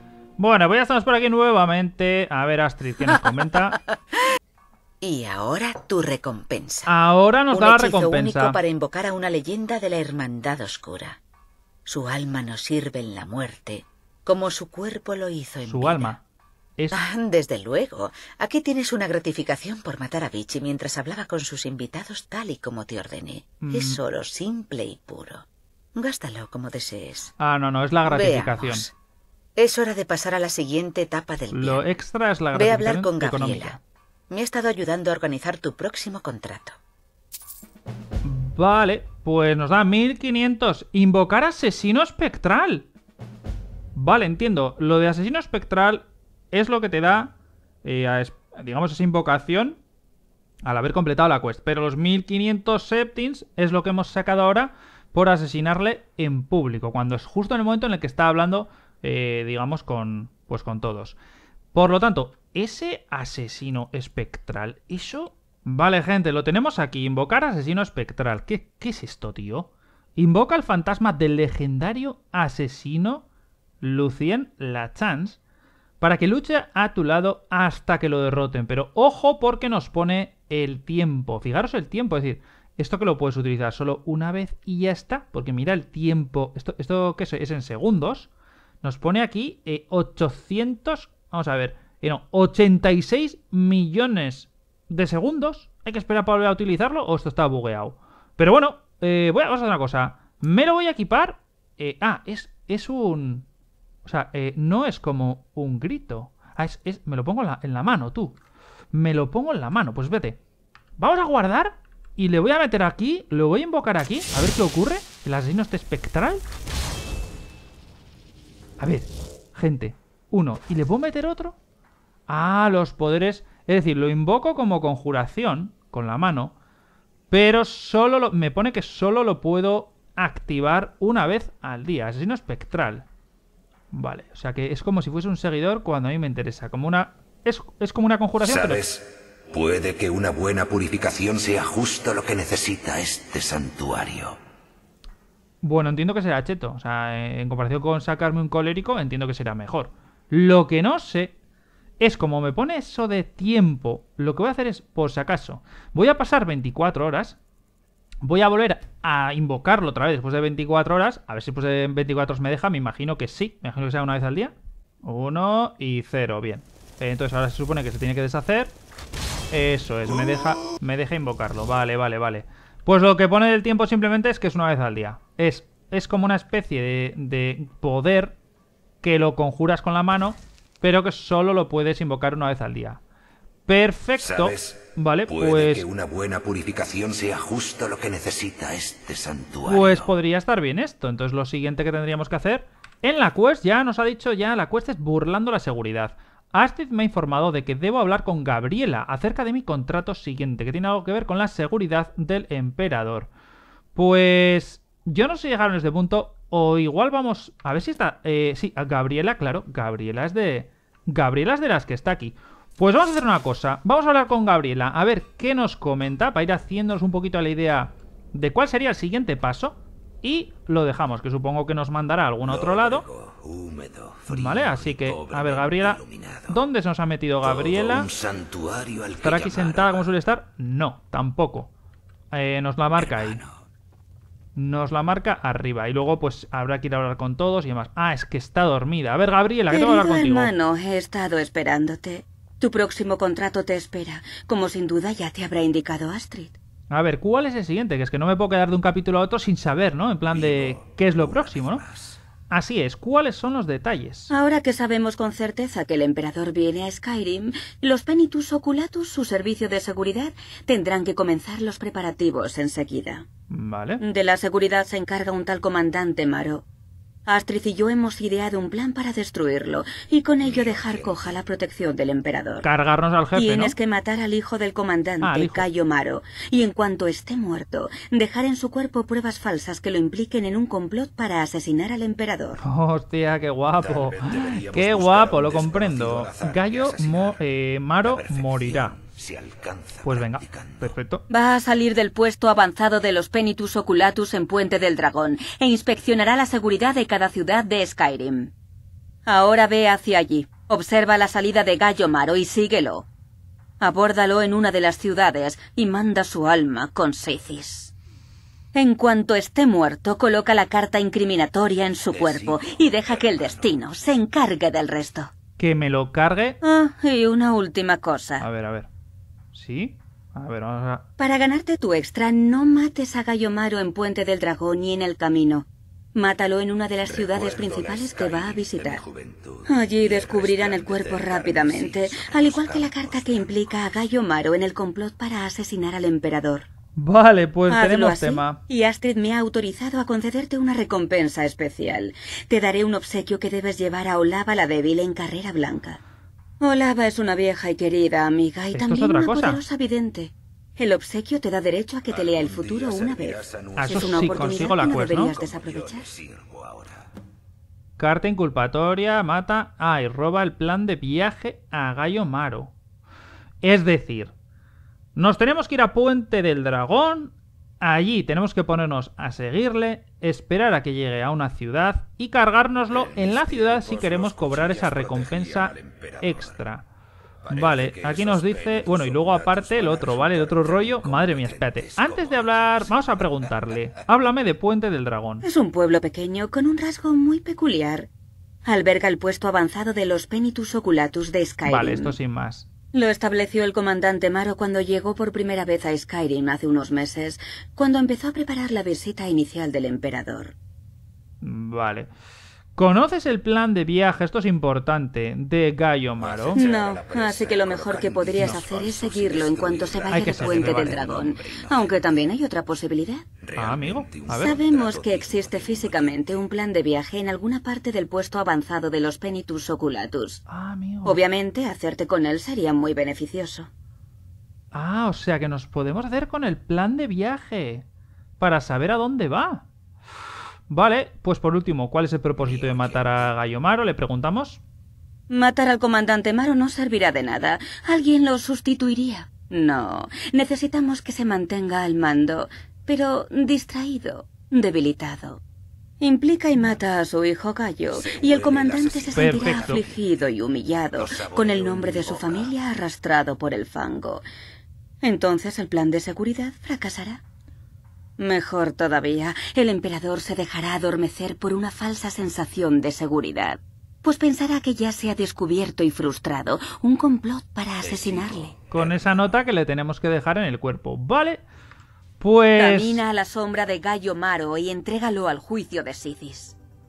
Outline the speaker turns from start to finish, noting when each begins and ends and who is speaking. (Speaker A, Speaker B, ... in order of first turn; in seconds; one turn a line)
Speaker A: 0.4-3.8
Speaker B: 5.0-6.9
Speaker A: 6.9-8.6
Speaker B: 7.5-11.2
Speaker B: 11.8-16.2
Speaker A: 15.6-16.2
Speaker B: 16.9-25.4
Speaker A: 23.6-24.0
Speaker B: 25.9-27.3
Speaker A: 27.4-28.9
Speaker B: 28.1-28.9
Speaker B: 29.6-31.8
Speaker A: 31.5-33.8
Speaker B: 32.5-33.8
Speaker B: 34.3-36.8
Speaker A: 38.2-42.9
Speaker A: 43.9-47.3
Speaker A: 47.8-49.8
Speaker A: 50.6-61.1
Speaker A: 61.7-73.2
Speaker A: 73.8-75.4
Speaker A: 76.0-88.3
Speaker A: 88.8-103.5
Speaker A: 104.0-108.4
Speaker A: 108.9-110.4
Speaker A: 111.0-116.4
Speaker A: 118.8-121.6
Speaker A: 122.3-126.5
Speaker A: 127.3-133.1
Speaker A: 133.9-138.8
Speaker C: 138.4-144.4
Speaker A: 145.6-151.3
Speaker A: 152.0-157.4
Speaker A: 158.2-168.7
Speaker A: 169.5-178.3
Speaker A: 179.0-183.0
Speaker A: 183.7-185.8
Speaker C: 184.2-190.1
Speaker A: 189.7-203.3
Speaker A: 203.9-223.1
Speaker C: 222.4-226.6
Speaker A: 224.3-228.1
Speaker C: 227.4-230.1
Speaker A: 229.2-231.7
Speaker A: 232.3-233.4
Speaker C: 232.9-233.6
Speaker A: 234.6-240.5
Speaker D: 239.7-246.5
Speaker A: 246.9-251.8
Speaker C: 250.3-252.2
Speaker A: 252.5-254.3
Speaker D: 254.3-263.2
Speaker A: 263.5-264.0
Speaker D: 264.0-266.6
Speaker D: 267.3-272.7
Speaker C: 270.4-271.5
Speaker A: 272.6-273.7
Speaker D: 273.3-282.6
Speaker A: 275.2-275.6
Speaker A: 282.6-289.0
Speaker C: 283.8-287.5
Speaker C: 288.0-290.9
Speaker A: 290.0-291.2
Speaker D: 291.3-298.5
Speaker D: 299.2-303.1
Speaker D: 303.8-307.9
Speaker D: 308.7-315.3
Speaker C: 311.7-313.9
Speaker A: 315.6-316.6
Speaker D: 316.6-318.4
Speaker A: 318.4-318.9
Speaker A: 319.5-321.0
Speaker D: 321.2-329.0
Speaker C: 327.0-334.1
Speaker D: 329.6-336.6
Speaker A: 337.0-338.6
Speaker D: 337.7-346.0
Speaker D: 346.6-356.1
Speaker A: 348.7-349.6
Speaker C: 352.1-357.1
Speaker A: 353.8-355.3
Speaker A: 358.0-362.7
Speaker A: 363.6-364.3
Speaker A: 365.1-376.8
Speaker C: 372.9-376.7
Speaker C: 377.4-384.1
Speaker A: 377.5-385.4
Speaker D: 385.4-388.1
Speaker D: 388.6-392.1
Speaker A: 391.6-392.6
Speaker D: 392.9-400.5
Speaker A: 401.4-402.1
Speaker A: 402.8-406.6
Speaker C: 406.2-412.3
Speaker D: 406.5-413.2
Speaker A: 410.1-411.1
Speaker C: 413.4-416.5
Speaker A: 413.6-414.6
Speaker D: 414.3-420.4
Speaker A: 420.5-421.2
Speaker D: 421.0-423.7
Speaker A: 424.7-427.8
Speaker A: 428.4-429.6
Speaker A: 430.7-434.6
Speaker C: 432.4-433.3
Speaker D: 435.3-445.4
Speaker D: 446.0-454.2
Speaker C: 447.9-450.4
Speaker A: 449.1-449.8
Speaker C: 450.9-452.6
Speaker D: 455.0-457.2
Speaker D: 458.2-468.5
Speaker C: 467.8-469.4
Speaker A: 468.7-471.4
Speaker A: 472.2-473.0
Speaker D: 472.6-476.6